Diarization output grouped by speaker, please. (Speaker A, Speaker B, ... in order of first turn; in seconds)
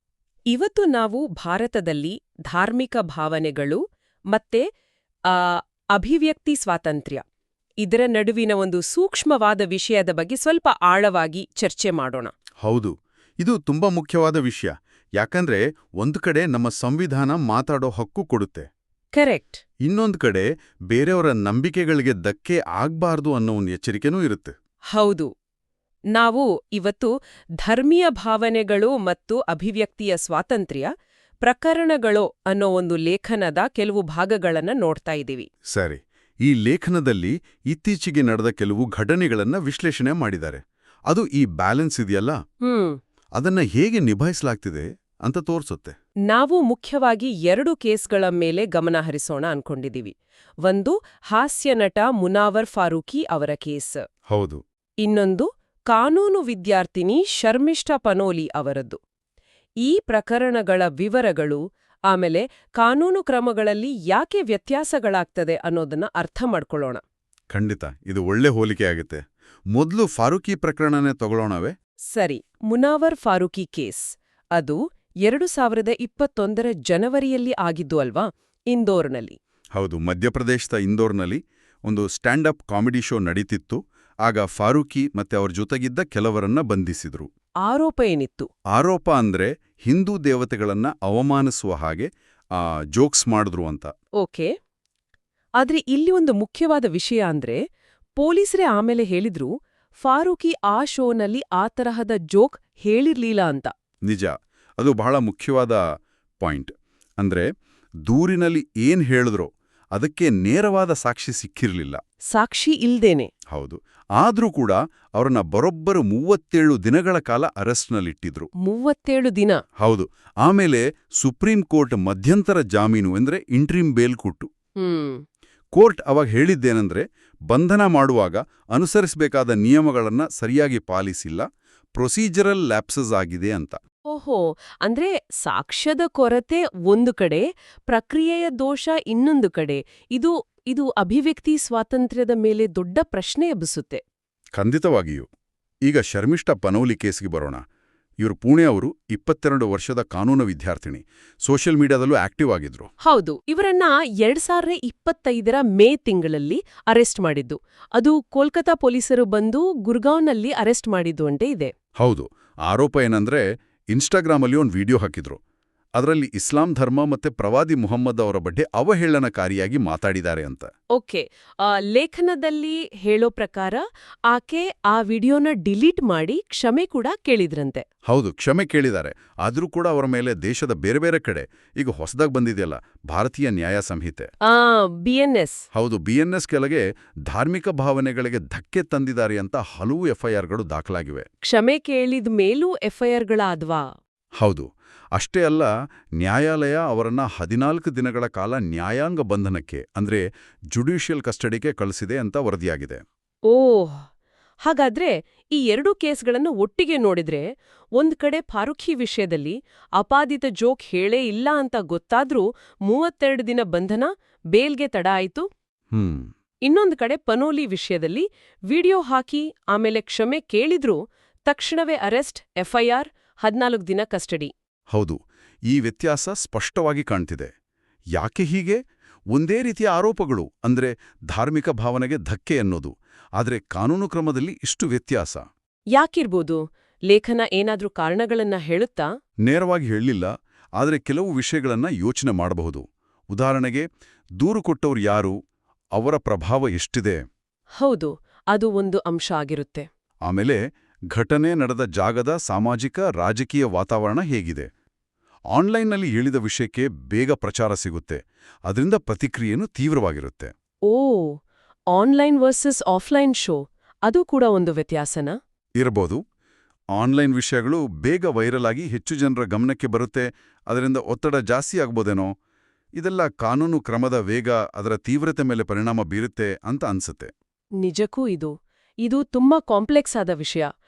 Speaker A: 0.5-3.8, 4.3-4.7, 5.3-7.2, 7.8-12.3, 19.1-19.6, 24.9-25.3, 26.1-30.9, 31.4-35.5, 42.6-43.0, 46.3-54.0, 55.0-59.0, 59.8-67.0, 72.1-79.4, 87.6-88.5, 94.2-94.5, 95.6-97.6, 98.2-103.7, 112.3-113.3, 118.6-119.6, 124.8-125.2, 134.1-144.0, 153.0-161.7, 170.9-177.8, 184.5-185.6, 191.4-193.9, 203.5-204.1, 204.6-207.5, 208.0-215.5, 216.7-224.5, 235.9-239.1, 247.8-249.9, 260.9-261.4, 261.9-265.4, 277.8-278.5, 279.0-280.7
Speaker B: 12.6-18.7, 19.8-24.5, 35.7-42.4, 43.4-46.0, 54.3-54.6, 67.5-71.7, 79.7-87.3, 88.7-93.9, 104.1-105.8, 106.4-107.5, 108.0-112.0, 113.5-118.5, 119.8-124.5, 125.7-131.4, 132.0-133.8, 144.6-145.3, 145.9-147.6, 148.2-152.9, 162.0-165.4, 166.0-170.7, 178.1-184.3, 185.7-191.3, 194.4-203.0, 215.9-216.3, 224.9-227.5, 228.1-228.8, 229.3-235.4, 239.5-243.8, 244.4-245.4, 245.9-247.2, 250.3-250.6, 251.1-254.7, 255.5-260.5, 265.8-266.2, 266.9-272.3, 273.0-277.3